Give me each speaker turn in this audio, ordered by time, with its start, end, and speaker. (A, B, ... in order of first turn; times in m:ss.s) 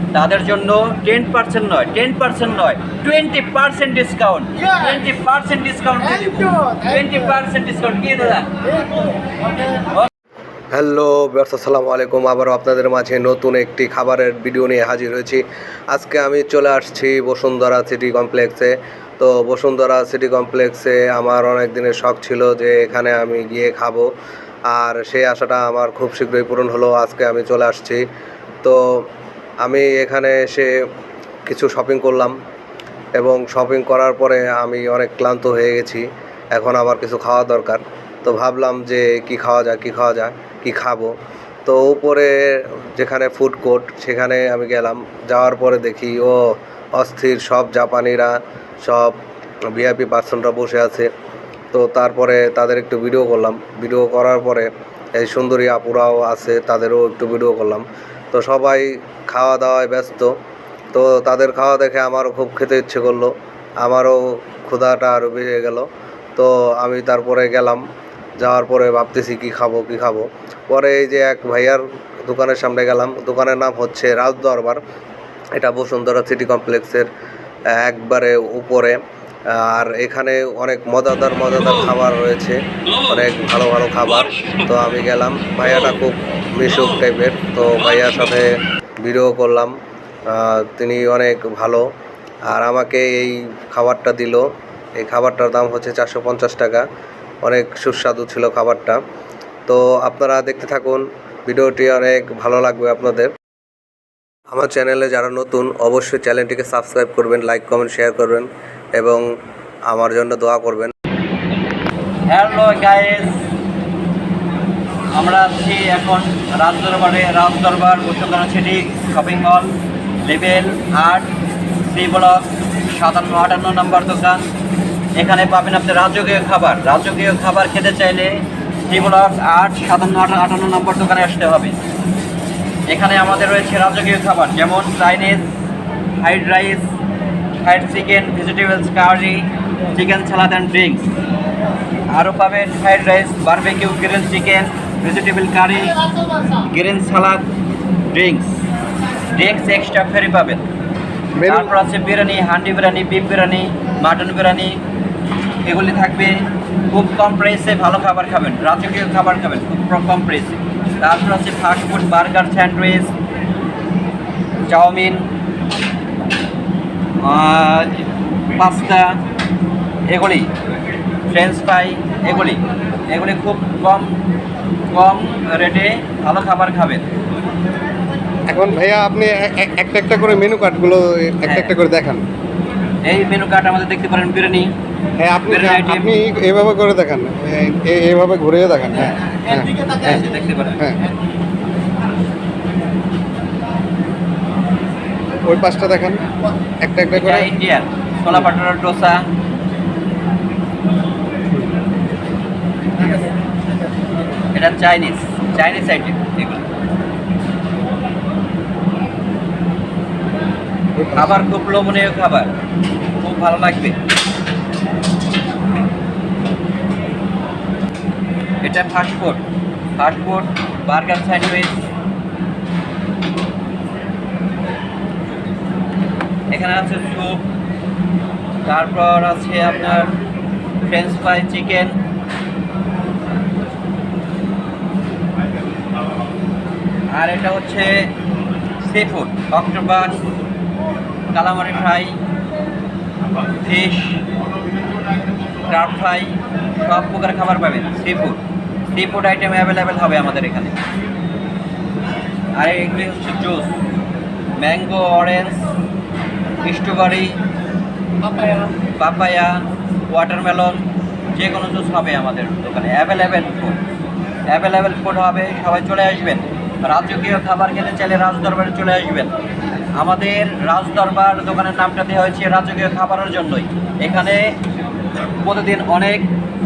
0:00.1-0:08.5 A
0:09.8-0:10.1 A
0:10.7-0:24.1 B
0:24.7-0:28.0 B
0:28.6-0:29.0 B
0:29.6-0:30.8 B
0:31.5-0:32.3 B
0:33.2-0:41.1 B
0:41.7-0:46.4 B
0:47.0-0:49.2 B
0:49.7-0:51.1 B
0:51.7-1:00.3 B
1:00.9-1:07.8 B
1:08.4-1:14.8 B
1:15.6-1:17.1 B
1:17.7-1:29.7 B
1:30.3-1:31.8 B
1:32.5-1:34.5 B
1:35.0-1:36.8 B
1:37.4-1:39.0 B
1:39.7-1:43.3 B
1:44.5-1:49.2 B
1:49.9-1:50.9 B
1:52.3-1:53.4 A
1:55.2-1:59.7 A
2:00.2-2:01.3 A
2:01.9-2:04.5 A
2:05.2-2:11.8 A
2:12.9-2:15.5 A
2:16.2-2:16.9 A
2:17.6-2:21.1 A
2:22.1-2:26.0 A
2:26.6-2:27.5 A
2:28.1-2:28.6 A
2:29.3-2:30.6 A
2:31.4-2:31.7 C
2:31.4-2:34.8 A
2:35.6-2:43.1 A
2:44.7-2:45.3 A
2:47.2-2:48.0 A
2:48.6-2:49.2 A
2:50.1-2:50.5 A
2:51.3-2:54.1 A
2:54.9-2:57.0 A
2:58.5-3:02.2 C
3:01.4-3:01.8 A
3:03.0-3:04.7 A
3:05.2-3:10.2 C
3:05.5-3:06.1 A
3:09.5-3:10.8 A
3:15.5-3:16.2 C
3:16.8-3:17.5 C
3:17.1-3:19.2 A
3:24.5-3:26.6 A
3:31.0-3:31.3 C
3:31.2-3:32.5 A
3:33.2-3:34.0 A
3:38.6-3:39.4 A
3:40.0-3:41.8 A
3:46.5-3:47.4 A
3:48.7-3:50.1 A
3:50.8-3:52.0 A
3:57.1-3:58.1 A
3:58.8-4:00.2 A
4:01.3-4:02.2 A
4:03.6-4:04.2 A
4:05.7-4:08.4 A
4:08.9-4:10.8 A
4:12.6-4:13.7 A
4:14.6-4:15.6 A
4:16.6-4:17.4 A
4:19.0-4:20.8 A
4:21.4-4:23.8 A
4:24.5-4:29.3 A
4:30.0-4:34.6 A
4:35.4-4:36.3 A